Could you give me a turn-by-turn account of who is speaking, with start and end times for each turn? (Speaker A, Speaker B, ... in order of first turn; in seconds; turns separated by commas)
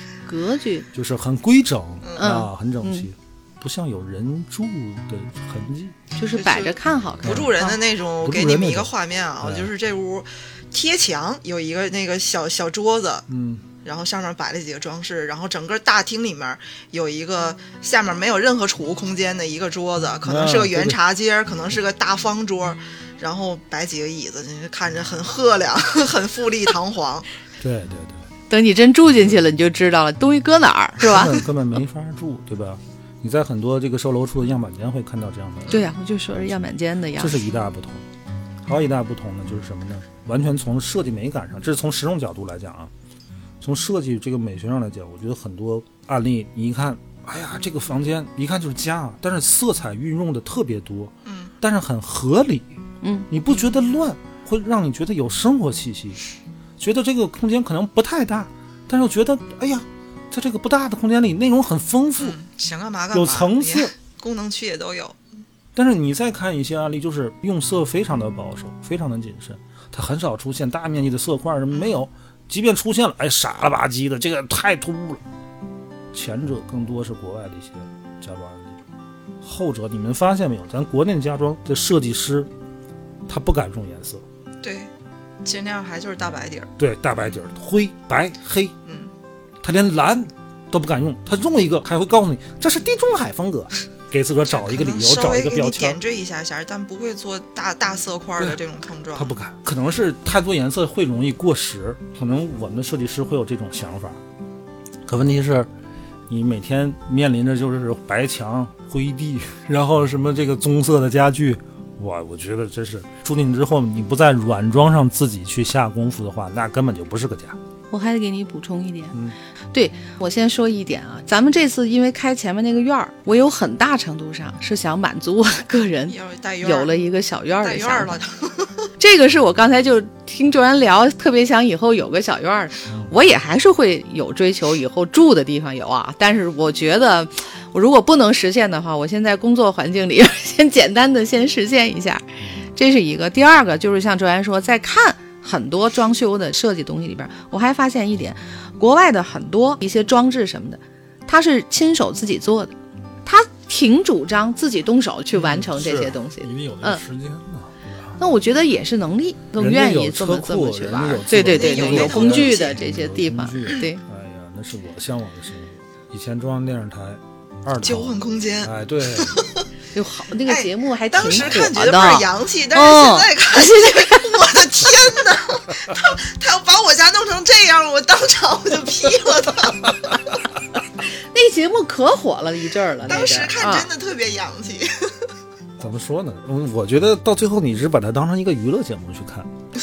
Speaker A: 0.2-0.9, Speaker B: 0.9-6.0, Speaker C: 2.0-2.3, Speaker A: 2.2-3.1, Speaker A: 6.2-7.8, Speaker C: 6.2-13.3, Speaker B: 7.2-7.5, Speaker B: 8.2-8.9, Speaker B: 9.4-9.7, Speaker B: 13.3-13.6, Speaker C: 13.8-27.3, Speaker B: 20.2-21.0, Speaker B: 27.6-28.3, Speaker A: 28.5-31.4, Speaker B: 31.0-35.8, Speaker A: 35.7-37.4, Speaker B: 37.2-38.0, Speaker B: 38.6-42.9, Speaker B: 43.6-52.7, Speaker C: 51.2-51.5, Speaker A: 53.0-53.3, Speaker B: 53.3-56.2, Speaker B: 56.8-62.4, Speaker C: 62.2-65.2, Speaker B: 63.1-63.9, Speaker B: 65.7-75.2, Speaker C: 71.7-72.0, Speaker B: 76.1-78.8, Speaker B: 79.4-82.5, Speaker B: 83.3-84.2, Speaker C: 84.6-84.9, Speaker C: 85.4-86.7, Speaker B: 86.8-88.7, Speaker C: 88.8-89.1, Speaker B: 89.6-96.0, Speaker C: 94.5-99.3, Speaker B: 99.1-104.2, Speaker B: 105.0-105.7, Speaker B: 106.3-117.6, Speaker A: 117.9-119.2, Speaker A: 119.7-128.1, Speaker C: 126.1-126.9, Speaker C: 127.6-128.7, Speaker A: 129.0-152.7, Speaker B: 132.9-133.1, Speaker A: 153.2-157.0, Speaker B: 155.3-158.2, Speaker A: 158.2-164.0, Speaker B: 159.6-169.4, Speaker C: 161.3-162.8, Speaker C: 167.8-169.6, Speaker A: 169.9-174.4, Speaker C: 170.4-180.2, Speaker A: 181.0-183.9, Speaker C: 183.1-185.3, Speaker B: 185.8-189.5